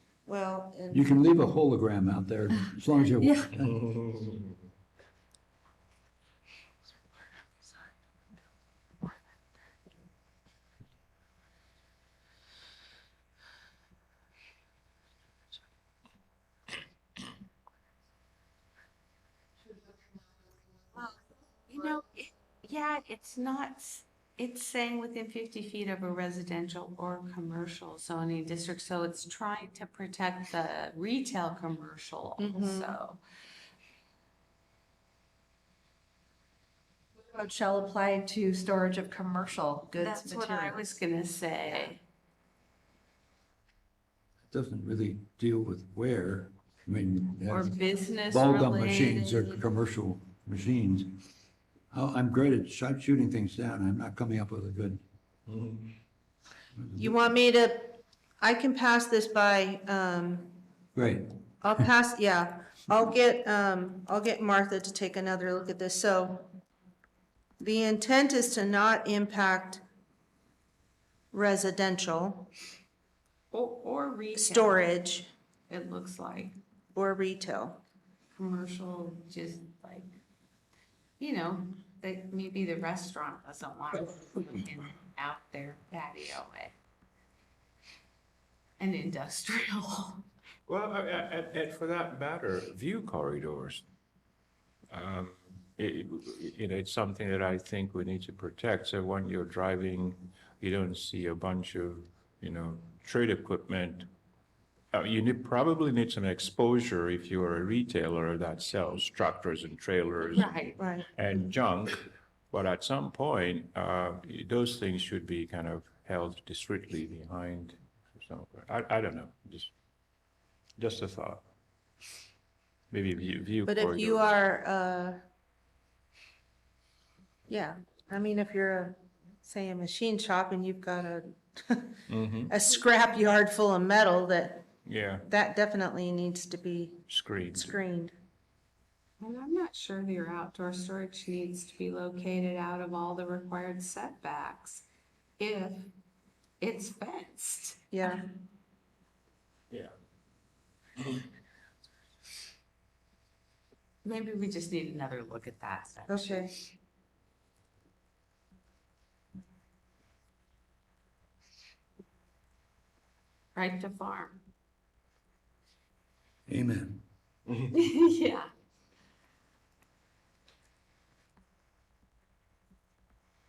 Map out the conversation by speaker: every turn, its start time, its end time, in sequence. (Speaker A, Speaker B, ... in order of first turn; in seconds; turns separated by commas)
Speaker A: 0.2-1.2, Speaker B: 0.9-3.9, Speaker C: 3.2-3.5, Speaker D: 4.1-4.4, Speaker E: 21.7-33.2, Speaker A: 32.4-33.0, Speaker C: 37.2-40.8, Speaker E: 40.0-42.0, Speaker B: 44.5-51.2, Speaker E: 47.5-49.6, Speaker B: 51.9-55.0, Speaker D: 55.5-55.8, Speaker B: 56.8-57.2, Speaker A: 57.0-60.6, Speaker B: 60.9-61.3, Speaker A: 61.6-66.5, Speaker A: 67.6-69.8, Speaker A: 71.3-72.5, Speaker E: 73.5-74.9, Speaker A: 74.3-75.3, Speaker E: 75.7-76.5, Speaker A: 76.9-77.8, Speaker E: 78.3-80.2, Speaker E: 81.2-86.7, Speaker E: 88.8-90.2, Speaker D: 90.7-93.8, Speaker D: 94.9-104.1, Speaker D: 104.9-110.5, Speaker E: 110.3-110.8, Speaker A: 110.8-111.4, Speaker D: 111.1-119.7, Speaker D: 120.8-121.4, Speaker D: 122.9-124.3, Speaker A: 123.7-125.2, Speaker A: 127.5-134.7, Speaker D: 132.1-132.5, Speaker D: 134.8-135.2, Speaker A: 135.2-138.1, Speaker D: 137.1-137.8, Speaker E: 139.2-144.9, Speaker E: 145.4-145.9, Speaker E: 146.6-147.8, Speaker A: 147.9-148.2, Speaker E: 154.0-156.5, Speaker A: 156.1-156.5, Speaker E: 163.5-164.4, Speaker B: 166.5-167.0, Speaker E: 167.7-168.5